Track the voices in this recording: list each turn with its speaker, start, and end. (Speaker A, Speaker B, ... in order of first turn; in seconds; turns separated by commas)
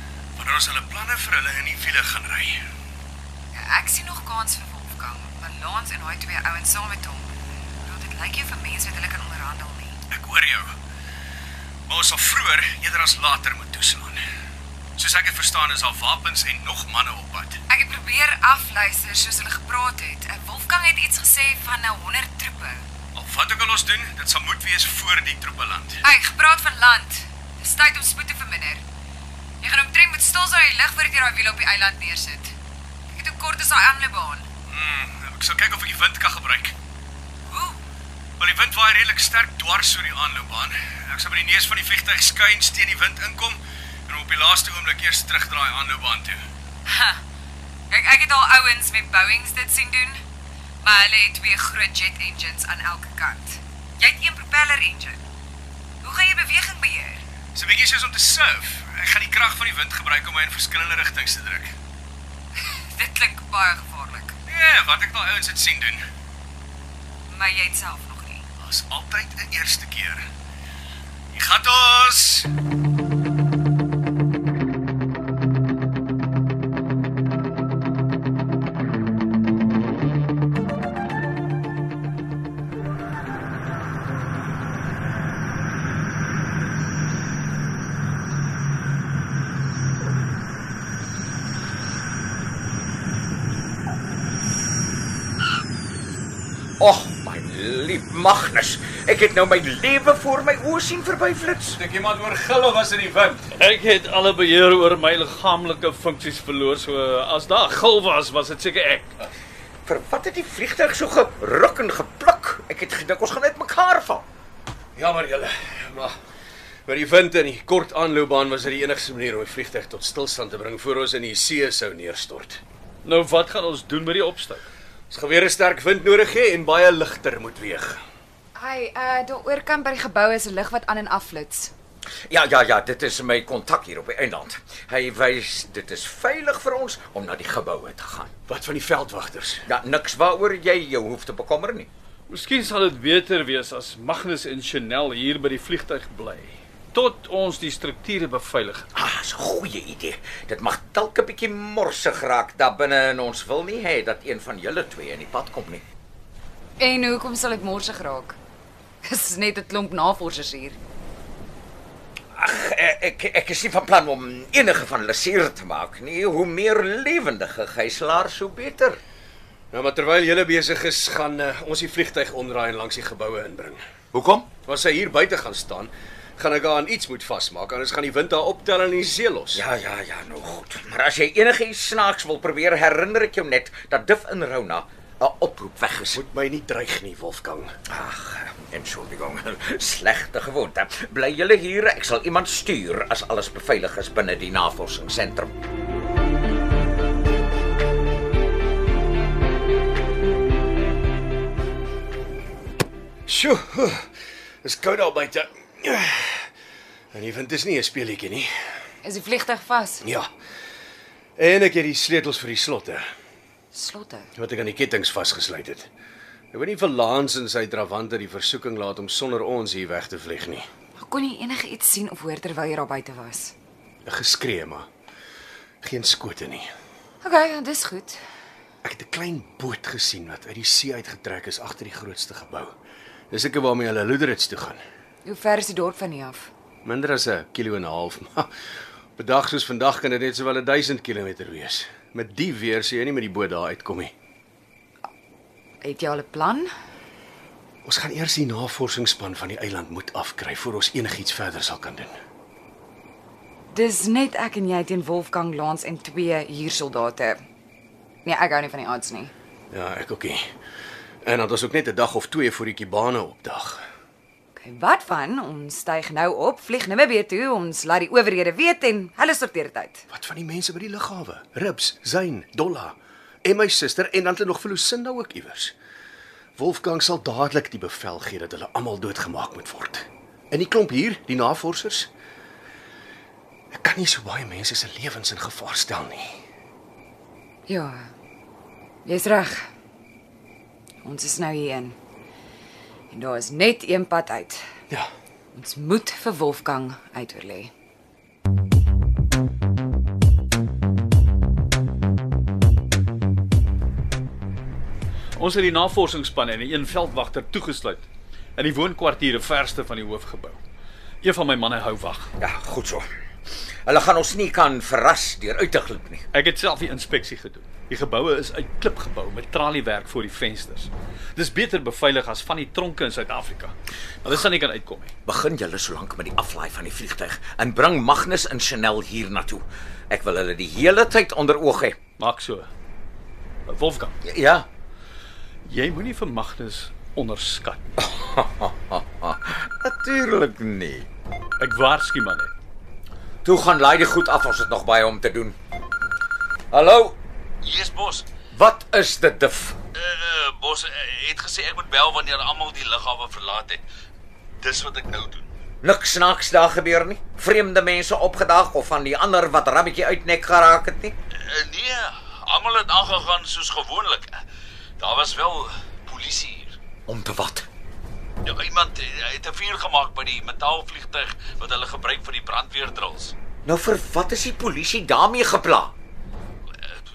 Speaker A: 0.4-2.6, Speaker B: 3.5-10.0, Speaker A: 10.1-10.7, Speaker A: 11.9-14.2, Speaker A: 15.0-17.6, Speaker B: 17.7-22.8, Speaker A: 23.1-26.0, Speaker B: 26.0-28.8, Speaker B: 29.6-32.5, Speaker B: 33.1-34.5, Speaker A: 34.7-36.7, Speaker B: 37.5-37.8, Speaker A: 38.4-46.4, Speaker B: 46.9-47.2, Speaker B: 47.9-50.2, Speaker B: 50.8-55.2, Speaker B: 56.0-57.2, Speaker A: 57.5-61.7, Speaker B: 62.5-64.4, Speaker A: 64.5-66.0, Speaker B: 67.3-68.5, Speaker A: 68.6-70.2, Speaker A: 71.3-72.5, Speaker C: 96.8-101.8, Speaker A: 101.7-103.5, Speaker D: 103.5-109.1, Speaker C: 109.8-114.2, Speaker A: 115.0-116.1, Speaker A: 116.8-122.6, Speaker D: 123.0-124.7, Speaker A: 125.1-128.0, Speaker B: 128.5-131.7, Speaker C: 132.3-138.3, Speaker A: 138.5-139.6, Speaker C: 139.7-141.9, Speaker D: 142.3-148.9, Speaker C: 148.9-155.8, Speaker B: 156.8-158.4, Speaker B: 159.1-160.8, Speaker C: 162.3-169.0, Speaker A: 169.7-173.8, Speaker C: 174.1-174.5, Speaker A: 174.7-179.6, Speaker C: 179.5-186.2, Speaker A: 186.1-187.7, Speaker C: 187.9-195.5, Speaker A: 203.3-204.1, Speaker A: 204.6-206.5, Speaker A: 207.1-208.5, Speaker B: 209.0-210.0, Speaker A: 210.0-210.3, Speaker A: 211.4-213.0, Speaker B: 213.7-214.3, Speaker A: 214.3-215.9, Speaker A: 216.5-220.7, Speaker B: 221.0-223.5, Speaker A: 224.1-224.9, Speaker A: 225.8-226.7, Speaker B: 227.2-228.2, Speaker A: 228.8-232.7, Speaker A: 233.3-234.8, Speaker B: 235.2-236.5, Speaker A: 236.8-238.5, Speaker A: 239.2-244.1, Speaker B: 245.8-246.7, Speaker A: 247.8-252.1, Speaker B: 253.7-257.4, Speaker B: 258.2-259.3, Speaker A: 259.7-260.4, Speaker A: 261.2-263.8, Speaker B: 264.6-270.0, Speaker A: 270.1-275.7, Speaker A: 276.6-282.1, Speaker A: 283.7-286.3, Speaker B: 287.7-288.1, Speaker B: 289.0-289.7, Speaker B: 291.0-292.0, Speaker B: 293.1-294.6, Speaker B: 295.5-297.7, Speaker D: 305.4-308.1, Speaker D: 308.6-310.6, Speaker D: 311.2-312.3, Speaker C: 312.4-313.1, Speaker C: 313.9-316.2, Speaker D: 316.3-325.1, Speaker C: 325.2-332.0, Speaker D: 332.2-332.7, Speaker D: 333.7-334.1, Speaker C: 334.2-334.7, Speaker D: 335.7-337.8, Speaker C: 338.0-341.1, Speaker D: 341.6-342.5, Speaker C: 343.4-345.5, Speaker C: 346.7-347.2, Speaker E: 347.6-348.2, Speaker C: 348.5-349.8, Speaker E: 350.0-353.8, Speaker D: 350.9-351.4, Speaker D: 354.6-355.5, Speaker C: 355.8-361.1, Speaker D: 361.4-364.2, Speaker E: 361.6-362.1, Speaker E: 362.6-364.2, Speaker D: 365.0-366.8, Speaker E: 366.1-366.5, Speaker C: 367.1-367.7, Speaker D: 368.4-373.3, Speaker E: 369.6-370.7, Speaker E: 371.7-372.4, Speaker C: 373.6-375.9